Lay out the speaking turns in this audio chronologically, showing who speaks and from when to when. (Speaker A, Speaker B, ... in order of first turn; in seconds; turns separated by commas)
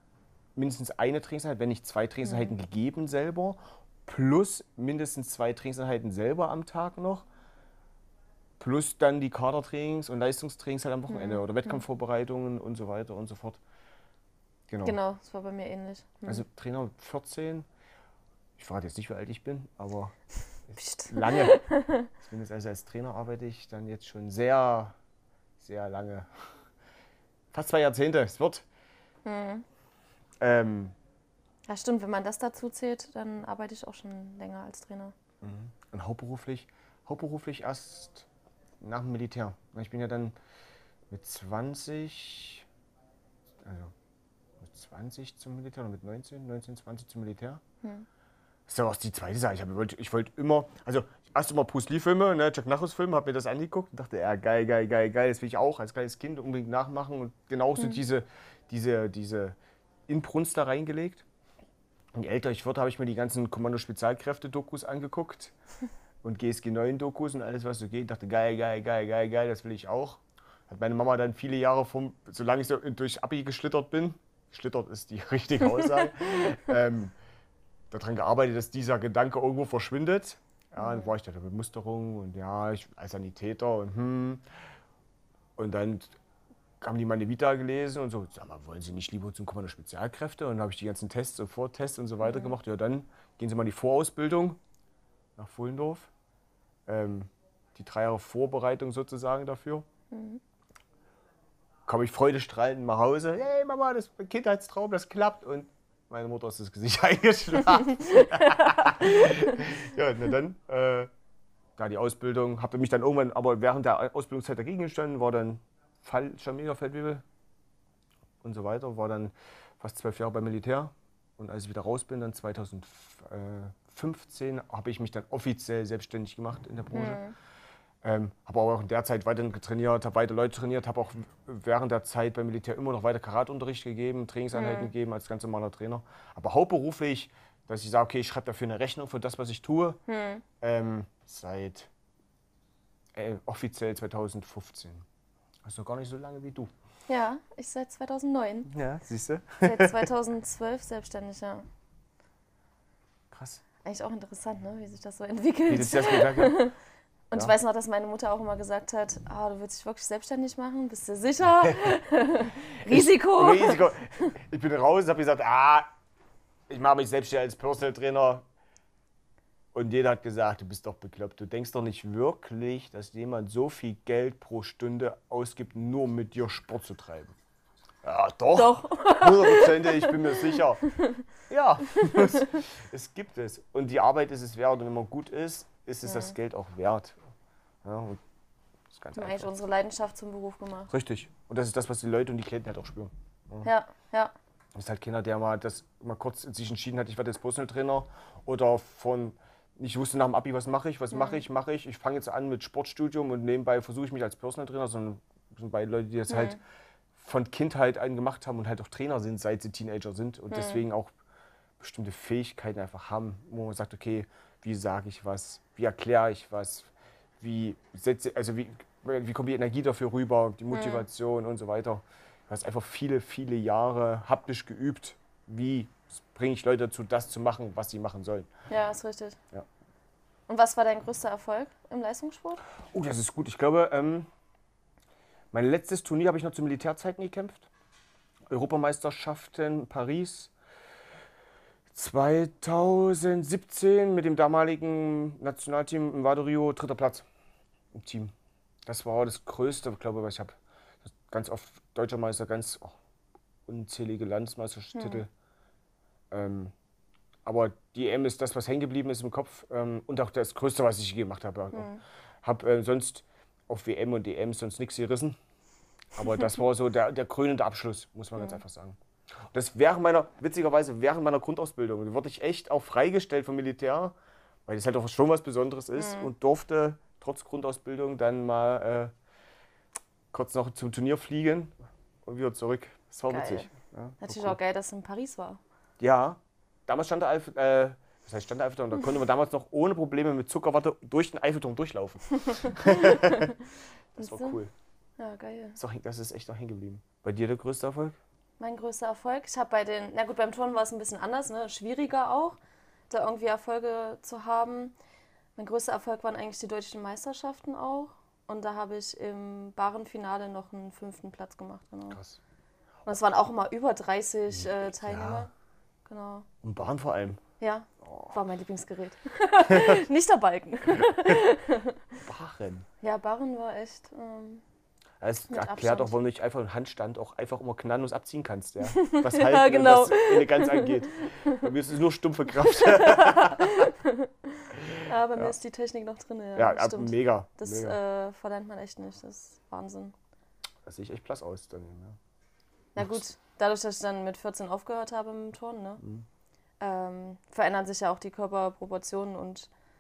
Speaker A: 0.6-7.2, Speaker B: 2.2-2.5, Speaker A: 8.6-13.6, Speaker B: 11.1-11.8, Speaker A: 14.7-15.0, Speaker B: 14.8-16.4, Speaker A: 16.2-17.7, Speaker A: 18.6-20.1, Speaker A: 20.7-21.6, Speaker B: 20.7-22.1, Speaker A: 22.2-25.0, Speaker A: 25.6-26.3, Speaker A: 27.5-28.7, Speaker B: 29.2-29.6, Speaker A: 30.4-30.9, Speaker B: 31.7-35.1, Speaker A: 35.4-38.3, Speaker A: 38.8-40.4, Speaker A: 41.1-42.7, Speaker A: 43.6-43.9, Speaker A: 44.6-47.6, Speaker A: 48.7-59.6, Speaker A: 60.1-61.2, Speaker A: 62.1-65.5, Speaker A: 66.2-77.1, Speaker A: 77.9-84.4, Speaker B: 80.8-81.1, Speaker A: 85.6-86.2, Speaker A: 86.8-94.6, Speaker B: 92.2-92.6, Speaker A: 95.4-96.1, Speaker A: 96.9-99.9, Speaker B: 100.1-100.4, Speaker A: 101.9-111.1, Speaker B: 108.4-109.3, Speaker A: 111.8-117.2, Speaker A: 118.4-127.3, Speaker B: 126.9-127.3, Speaker A: 128.0-140.0, Speaker B: 134.5-134.9, Speaker B: 140.1-140.4, Speaker A: 140.6-141.9, Speaker A: 143.2-145.1, Speaker A: 145.6-146.7, Speaker B: 147.1-148.7, Speaker A: 148.7-150.1, Speaker B: 149.6-151.7, Speaker A: 153.3-153.6, Speaker B: 153.8-156.8, Speaker A: 155.7-156.7, Speaker B: 157.3-164.3, Speaker A: 162.9-165.9, Speaker A: 166.7-168.4, Speaker A: 169.7-177.3, Speaker A: 178.0-180.8, Speaker B: 178.5-181.2, Speaker A: 181.5-187.2, Speaker B: 186.0-186.3, Speaker A: 187.8-188.2, Speaker A: 188.9-189.5, Speaker B: 189.2-190.9, Speaker A: 190.9-193.7, Speaker B: 193.6-194.3, Speaker A: 194.8-206.6, Speaker B: 201.1-201.4, Speaker B: 206.3-206.6, Speaker A: 207.2-211.1, Speaker B: 210.5-210.8, Speaker A: 211.8-228.5, Speaker B: 220.7-221.1, Speaker B: 228.7-229.4, Speaker B: 230.5-232.6, Speaker A: 232.9-234.3, Speaker A: 235.5-237.7, Speaker A: 238.5-240.5, Speaker A: 241.9-247.2, Speaker A: 247.9-248.3, Speaker A: 248.9-252.9, Speaker A: 253.7-255.3, Speaker B: 254.9-255.2, Speaker A: 256.3-256.7, Speaker A: 257.5-261.9, Speaker B: 261.7-262.0, Speaker A: 262.4-265.4, Speaker A: 266.1-269.0, Speaker A: 269.5-279.1, Speaker B: 275.9-276.3, Speaker A: 280.3-281.7, Speaker A: 282.2-284.6, Speaker B: 283.3-283.7, Speaker B: 284.2-285.6, Speaker A: 286.0-293.5, Speaker B: 292.8-293.4, Speaker A: 294.1-294.7, Speaker B: 294.2-294.6, Speaker B: 295.2-295.8, Speaker A: 295.8-298.2, Speaker B: 298.6-302.6, Speaker B: 303.1-304.9, Speaker B: 305.6-312.2, Speaker A: 312.1-312.4, Speaker B: 313.1-315.5, Speaker A: 314.5-315.5, Speaker B: 316.1-316.5, Speaker A: 316.6-317.4, Speaker B: 317.6-322.0, Speaker A: 318.0-318.4, Speaker A: 322.2-322.9, Speaker B: 323.0-324.6, Speaker A: 325.2-333.9, Speaker B: 325.5-326.2, Speaker B: 328.9-331.7, Speaker B: 332.5-340.1, Speaker A: 334.9-335.6, Speaker A: 336.6-338.0, Speaker A: 340.9-342.2, Speaker B: 343.0-346.0, Speaker B: 346.8-349.7